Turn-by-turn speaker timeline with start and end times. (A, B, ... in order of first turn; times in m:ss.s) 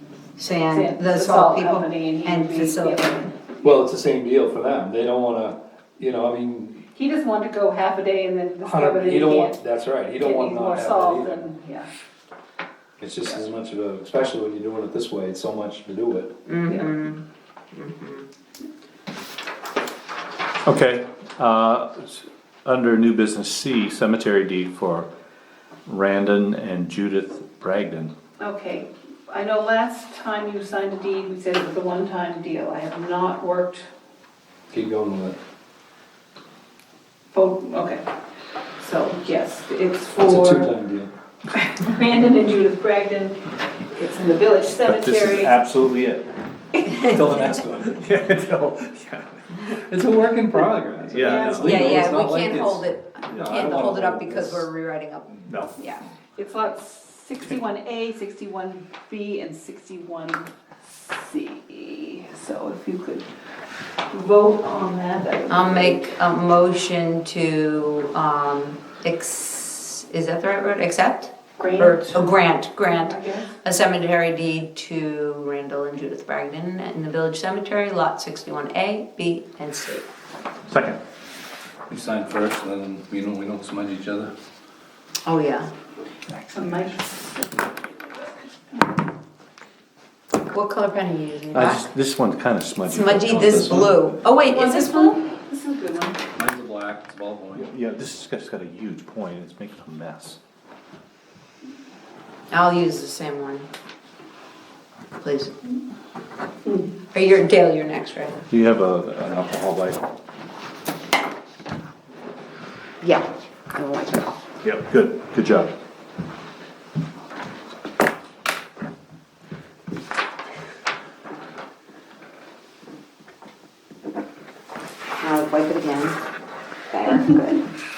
0:00.4-0:03.2 A
0:00.7-0:03.4 B
0:03.6-0:06.8 C
0:06.9-0:09.5 B
0:08.6-0:11.5 C
0:10.2-0:11.9 B
0:13.0-0:16.3 C
0:16.5-0:17.2 A
0:16.6-0:16.9 B
0:17.7-0:18.2 A
0:20.6-0:25.1 D
0:25.8-0:28.1 D
0:28.4-0:33.8 B
0:34.7-0:35.4 C
0:37.3-0:38.0 B
0:38.8-0:40.7 B
0:40.2-0:41.1 C
0:41.5-0:45.5 B
0:44.8-0:46.3 D
0:46.9-0:48.0 C
0:47.2-0:49.8 D
0:49.8-0:54.7 C
0:51.1-0:52.0 D
0:51.2-0:51.7 B
0:51.6-0:55.4 A
0:55.4-0:55.7 D
0:55.8-1:03.3 B
1:04.1-1:06.1 B
1:05.5-1:20.1 A
1:11.6-1:12.3 B
1:12.9-1:13.5 B
1:20.7-1:21.0 D
1:21.9-1:24.3 C
1:25.2-1:25.7 A
1:26.3-1:29.0 B
1:30.3-1:31.8 A
1:31.5-1:34.1 D
1:32.9-1:35.1 A
1:34.4-1:36.3 B
1:36.3-1:37.7 C
1:37.6-1:40.4 D
1:42.5-1:43.7 A
1:45.2-1:45.5 A
1:47.1-1:48.4 A
1:48.5-1:50.0 D
1:53.0-1:54.3 A
1:54.6-1:55.7 D
2:05.2-2:06.2 A
2:06.9-2:07.6 A